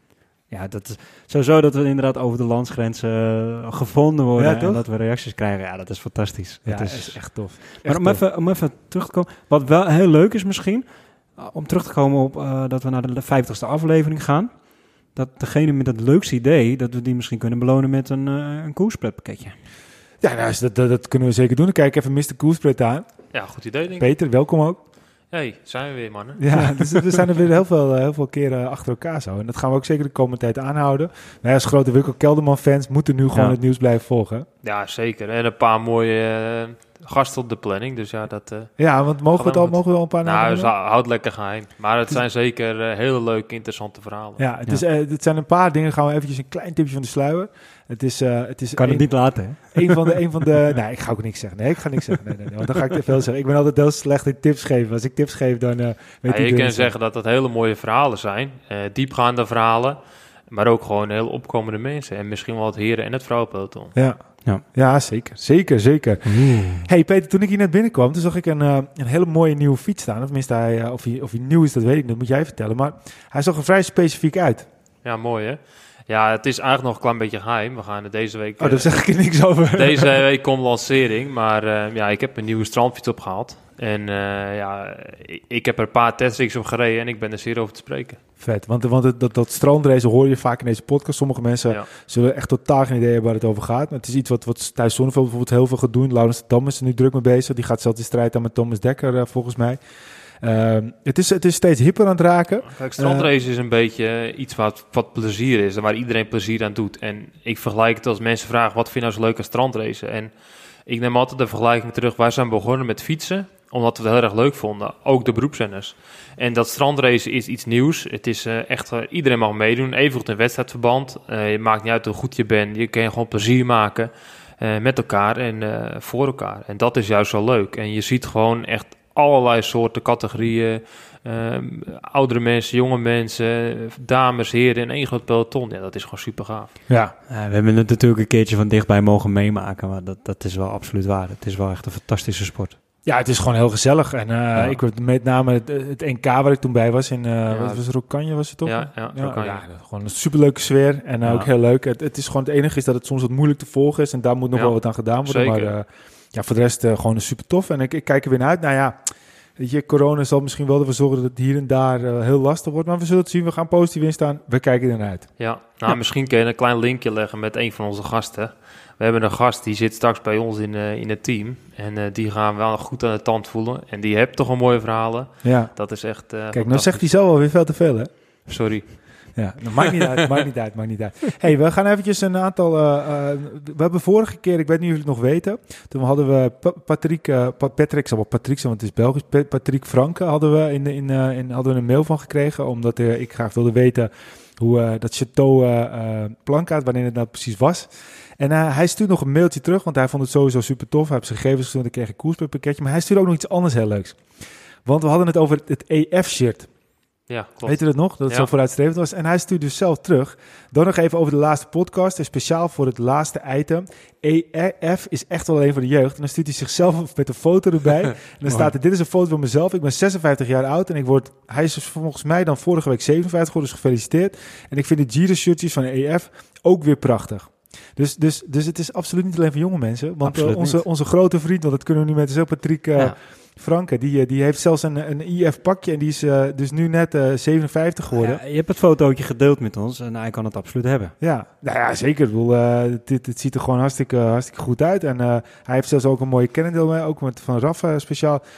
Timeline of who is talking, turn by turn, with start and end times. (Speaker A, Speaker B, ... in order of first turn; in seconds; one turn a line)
Speaker A: 0.5-7.2
Speaker B: 4.4-4.8
Speaker B: 6.7-8.2
Speaker A: 7.8-10.8
Speaker A: 11.4-14.5
Speaker A: 15.2-19.6
Speaker B: 20.2-23.1
Speaker C: 23.3-24.1
Speaker B: 24.0-24.8
Speaker C: 25.3-26.4
Speaker B: 26.4-34.5
Speaker C: 34.6-38.7
Speaker B: 38.8-40.7
Speaker C: 39.3-44.4
Speaker B: 44.4-49.1
Speaker A: 48.8-50.1
Speaker B: 49.7-56.9
Speaker C: 56.3-60.0
Speaker C: 60.5-63.9
Speaker B: 64.0-74.7
Speaker A: 66.3-66.9
Speaker C: 75.0-79.0
Speaker B: 78.6-80.1
Speaker C: 79.7-88.2
Speaker B: 88.4-99.8
Speaker B: 100.4-103.3
Speaker C: 102.7-110.3
Speaker C: 110.9-136.7
Speaker B: 136.9-137.1
Speaker A: 137.3-142.8
Speaker B: 143.1-159.0
Speaker C: 147.5-147.8
Speaker C: 148.7-149.6
Speaker A: 151.2-151.5
Speaker C: 155.3-155.7
Speaker B: 159.6-165.3
Speaker C: 165.4-177.1
Speaker B: 175.4-175.7
Speaker B: 176.5-178.1
Speaker C: 178.5-179.0
Speaker B: 179.3-204.2
Speaker C: 179.8-180.4
Speaker B: 204.8-206.7
Speaker C: 207.3-208.5
Speaker B: 207.7-238.4
Speaker A: 230.2-230.8
Speaker A: 238.1-241.1
Speaker B: 241.2-248.4